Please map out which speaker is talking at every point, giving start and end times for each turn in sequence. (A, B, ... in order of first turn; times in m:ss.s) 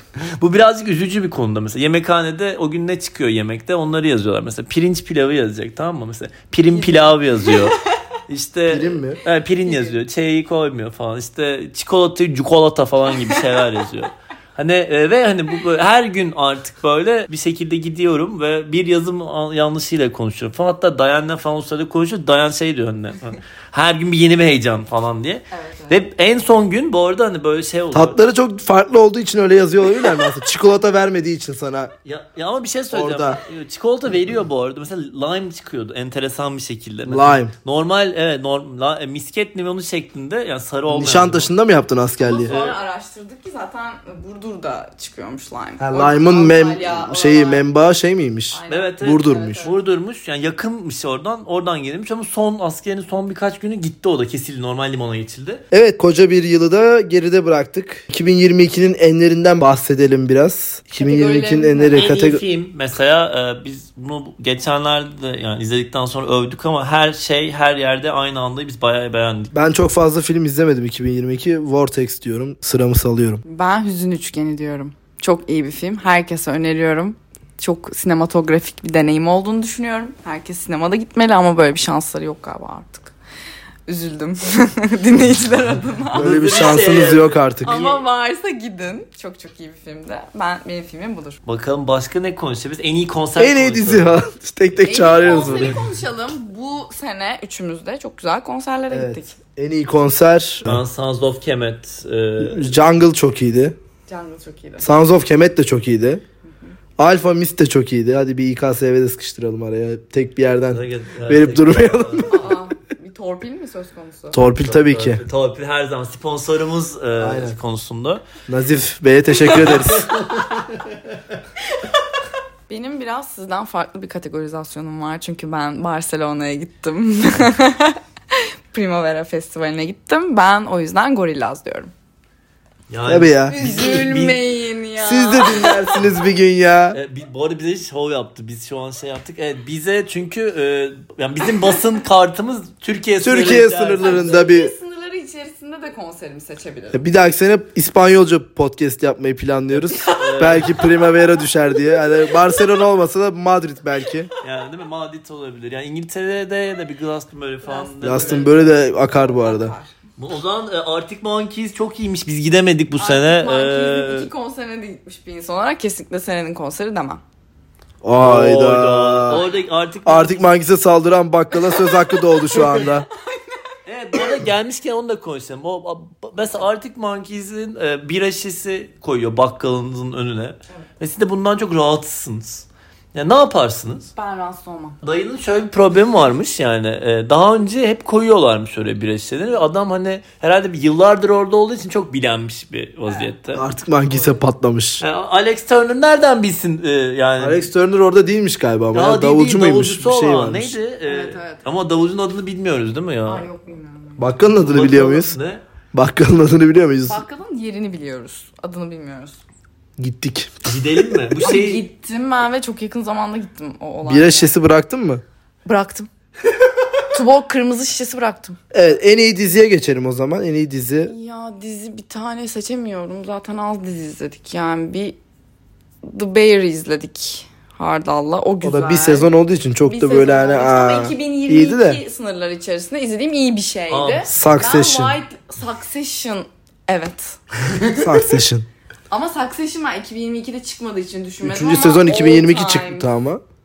0:00.2-0:28.2 A
0:06.7-0:07.8 B
0:08.7-0:09.2 C
0:09.7-0:10.0 B
0:25.5-0:26.0 B
0:27.9-0:31.9 C
0:32.0-0:41.5 A
0:32.9-0:33.4 C
0:37.1-0:37.5 C
0:40.9-0:42.5 C
0:42.2-0:47.7 B
0:42.4-0:42.8 A
0:45.8-0:49.6 C
0:48.5-0:49.8 B
0:48.7-0:55.6 A
0:55.7-1:02.4 C
1:00.9-1:02.2 B
1:01.9-1:09.5 A
1:09.5-1:13.4 C
1:13.4-1:23.2 B
1:23.9-1:27.0 B
1:26.1-1:27.8 C
1:26.1-1:28.0 A
1:27.6-1:31.4 B
1:31.5-1:34.1 A
1:33.4-1:35.8 C
1:34.9-1:39.4 B
1:38.9-1:40.8 C
1:40.6-1:42.7 A
1:42.4-1:43.8 C
1:44.1-1:44.9 B
1:44.8-1:46.2 C
1:47.0-1:52.6 C
1:50.7-1:52.3 A
1:52.3-1:54.4 B
1:54.3-1:55.2 C
1:54.4-1:58.2 A
1:57.2-1:57.6 C
1:58.5-2:00.2 C
1:59.6-2:01.2 A
2:02.7-2:11.9 B
2:12.9-2:14.5 A
2:13.1-2:13.6 C
2:13.4-2:16.0 B
2:15.0-2:17.0 C
2:16.9-2:24.3 A
2:23.2-2:24.7 C
2:24.0-2:27.0 B
2:26.9-2:34.3 C
2:29.9-2:30.9 A
2:34.4-2:38.6 A
2:37.6-2:39.9 B
2:38.0-2:39.7 C
2:40.2-2:44.3 A
2:43.0-2:47.2 B
2:48.0-2:49.4 C
2:48.2-2:50.5 A
2:49.3-2:49.6 B
2:50.0-2:53.1 C
2:51.5-2:53.7 B
2:53.9-3:04.1 A
2:56.4-2:56.7 B
3:04.1-3:05.0 B
3:05.0-3:13.6 A
3:13.0-3:13.3 B
3:13.5-3:15.0 C
3:14.1-3:14.4 B
3:15.0-3:17.7 A
3:17.4-3:20.8 C
3:18.9-3:23.4 A
3:21.0-3:21.6 B
3:23.3-3:24.4 B
3:24.2-3:25.4 C
3:24.5-3:25.6 A
3:25.9-3:27.2 C
3:27.1-3:29.4 B
3:30.0-3:30.6 C
3:30.6-3:31.8 A
3:31.4-3:34.5 B
3:34.0-3:35.2 C
3:35.6-3:36.1 B
3:37.1-3:38.6 B
3:38.7-3:41.1 C
3:41.0-3:45.2 B
3:46.0-3:49.3 B
3:48.6-3:52.0 C
3:49.9-3:58.2 B
3:53.9-3:54.3 A
3:54.3-3:55.2 C
3:58.0-3:58.7 C
3:59.1-4:03.1 B
4:01.4-4:03.4 C